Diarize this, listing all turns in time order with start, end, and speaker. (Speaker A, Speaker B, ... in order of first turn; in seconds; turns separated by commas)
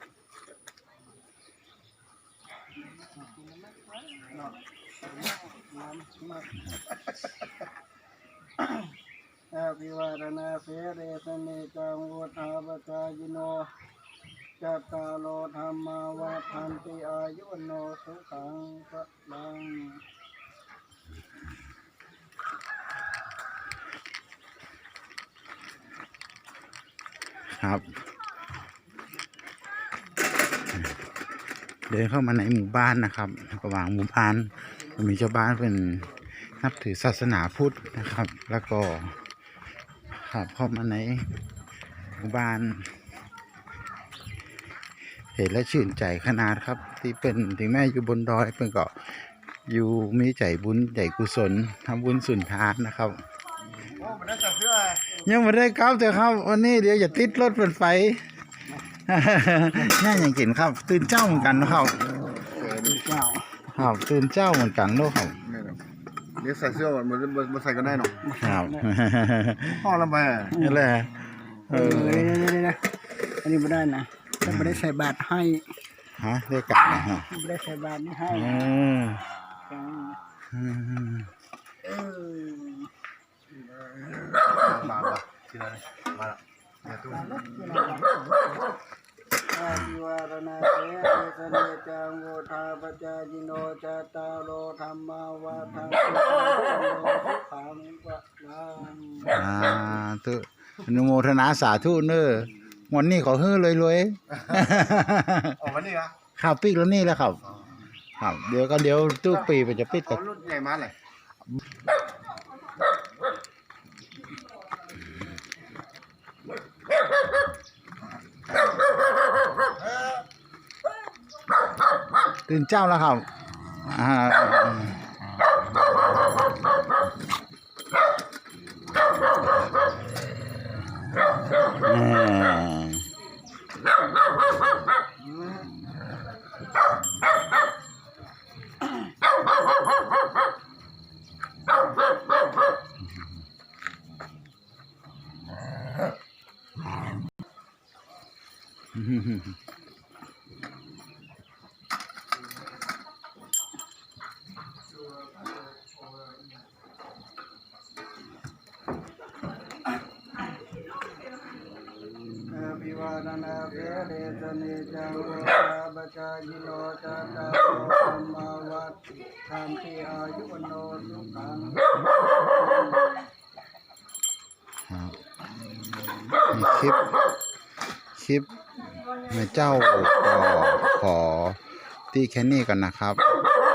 Speaker A: 3.2-6.8, Speaker A: 9.5-13.7, Speaker A: 14.6-20.0, Speaker B: 27.5-27.9, Speaker B: 31.9-39.2, Speaker B: 40.1-41.4, Speaker B: 42.1-43.1, Speaker B: 45.3-53.2, Speaker C: 54.0-55.1, Speaker B: 55.1-58.3, Speaker B: 59.1-62.2, Speaker C: 62.4-63.0, Speaker A: 62.6-63.7, Speaker B: 63.7-65.4, Speaker C: 65.5-65.8, Speaker C: 66.4-68.2, Speaker A: 68.2-68.9, Speaker B: 68.4-70.0, Speaker C: 69.8-70.6, Speaker B: 70.5-72.5, Speaker A: 70.5-70.8, Speaker A: 71.7-75.7, Speaker B: 74.5-74.8, Speaker B: 76.2-77.3, Speaker A: 76.8-78.8, Speaker B: 78.3-79.2, Speaker A: 79.7-80.2, Speaker B: 80.5-81.3, Speaker A: 81.8-82.9, Speaker A: 83.9-84.7, Speaker C: 84.5-87.8, Speaker A: 87.1-88.2, Speaker A: 89.5-99.3, Speaker B: 99.3-105.7, Speaker C: 105.6-106.2, Speaker B: 106.4-110.2, Speaker C: 110.0-110.9, Speaker B: 122.5-123.3, Speaker B: 123.8-125.0, Speaker B: 131.6-133.1, Speaker B: 148.9-149.6, Speaker A: 162.5-173.2, Speaker B: 174.9-175.2, Speaker B: 176.5-177.1, Speaker B: 178.2-178.5, Speaker B: 179.1-183.3